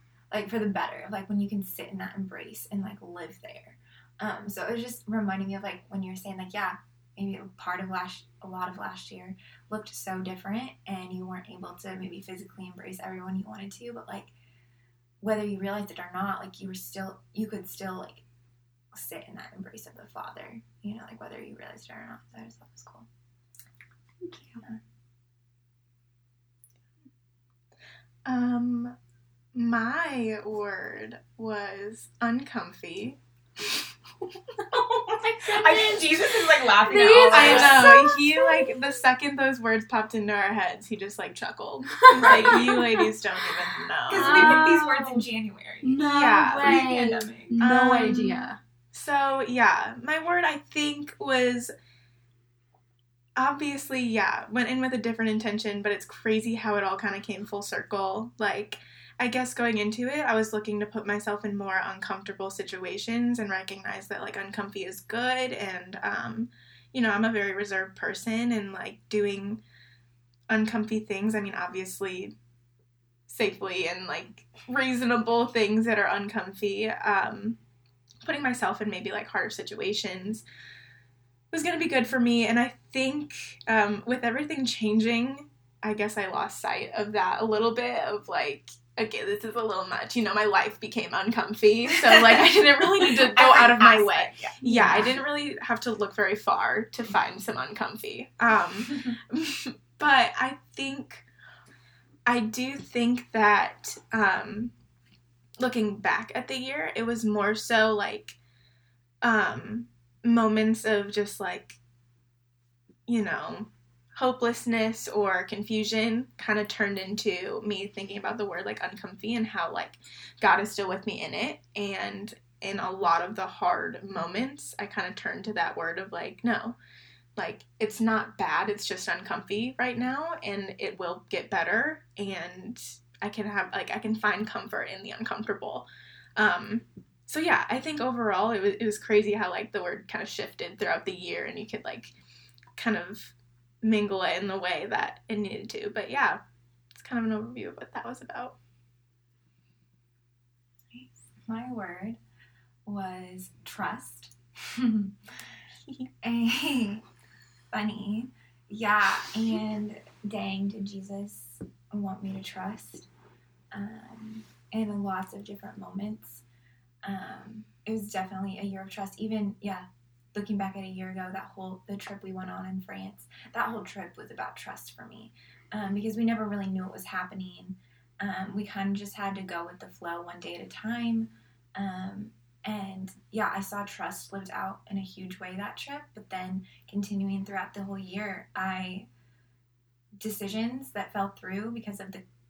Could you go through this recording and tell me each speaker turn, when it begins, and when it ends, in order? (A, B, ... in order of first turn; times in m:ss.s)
0:00.3-0:14.3 A
0:15.2-0:18.2 A
0:18.9-0:23.1 A
0:24.2-0:24.6 B
0:28.2-0:29.0 C
0:29.5-0:33.9 C
0:35.0-0:37.8 A
0:35.3-0:36.0 C
0:36.8-0:38.8 B
0:37.3-0:44.7 C
0:42.0-0:43.1 B
0:42.2-0:42.7 A
0:43.8-0:45.2 B
0:44.1-0:47.6 A
0:45.8-0:48.6 B
0:46.0-0:51.7 C
0:53.4-1:09.6 C
1:10.5-1:12.3 C
1:13.3-1:17.6 C
1:18.2-1:20.4 C
1:21.5-1:41.2 C
1:31.9-1:35.2 A
1:34.6-1:35.1 B
1:42.2-1:44.7 C
1:45.6-1:48.4 C
1:49.2-1:51.8 C
1:53.1-2:06.8 C
2:07.4-2:22.1 C
2:22.8-2:26.4 C
2:26.9-2:28.6 C
2:30.9-2:32.2 A
2:32.8-2:35.1 A
2:36.2-2:37.0 A
2:37.7-2:43.1 A
2:43.7-2:46.4 A
2:47.0-3:09.1 A
3:10.2-3:12.2 A